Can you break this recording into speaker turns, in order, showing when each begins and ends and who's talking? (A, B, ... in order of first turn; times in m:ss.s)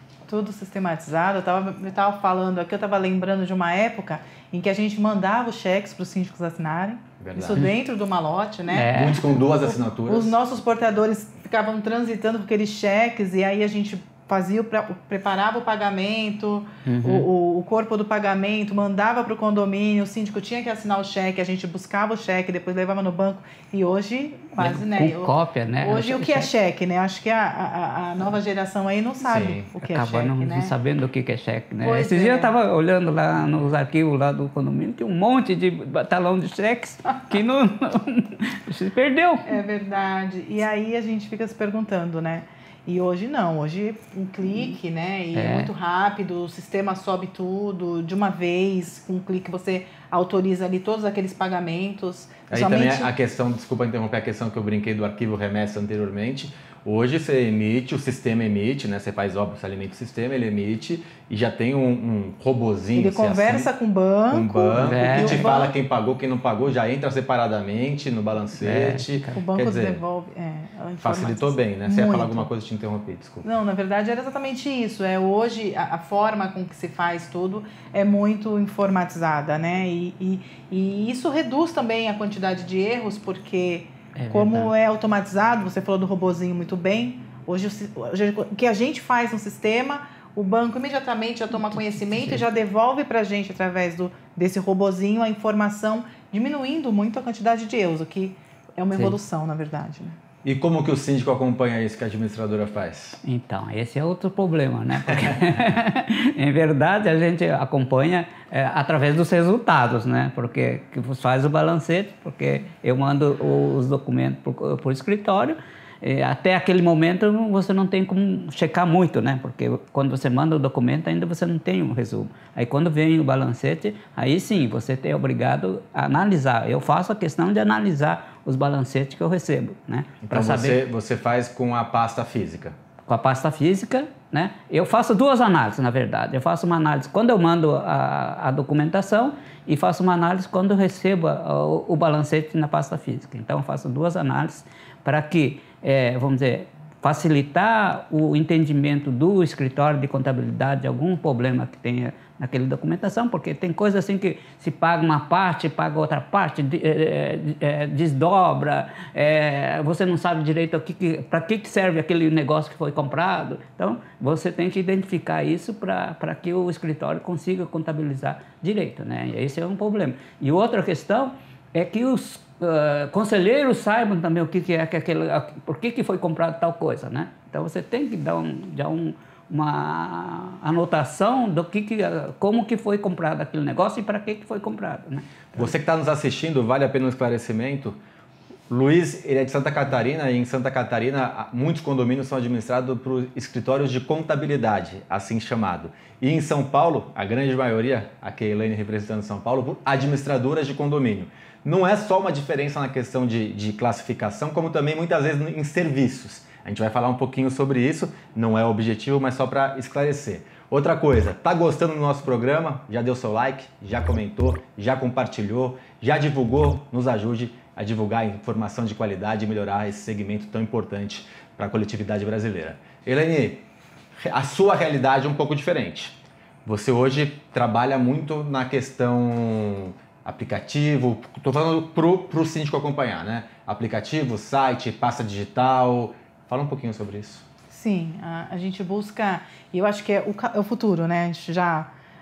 0:00.3-0:30.7 A
0:07.2-0:07.6 B
0:08.7-0:09.4 C
0:08.9-0:10.3 B
0:16.9-0:17.3 C
0:24.6-0:26.5 C
0:29.2-0:29.7 B
0:29.8-0:39.6 C
0:31.8-0:32.5 A
0:39.4-0:53.1 A
0:45.4-0:45.7 C
0:52.5-1:03.7 B
1:03.0-1:05.8 A
1:04.3-1:10.0 B
1:04.8-1:05.4 C
1:08.6-1:09.4 C
1:09.3-1:12.5 A
1:11.0-1:13.4 B
1:13.4-1:40.2 A
1:24.2-1:24.7 C
1:32.0-1:32.4 C
1:40.4-1:43.2 B
1:43.2-2:10.8 C
2:10.2-2:12.8 B
2:13.1-3:05.7 C
3:05.6-3:08.0 B
3:08.7-3:43.6 B
3:44.2-3:57.4 B
3:57.7-4:01.9 A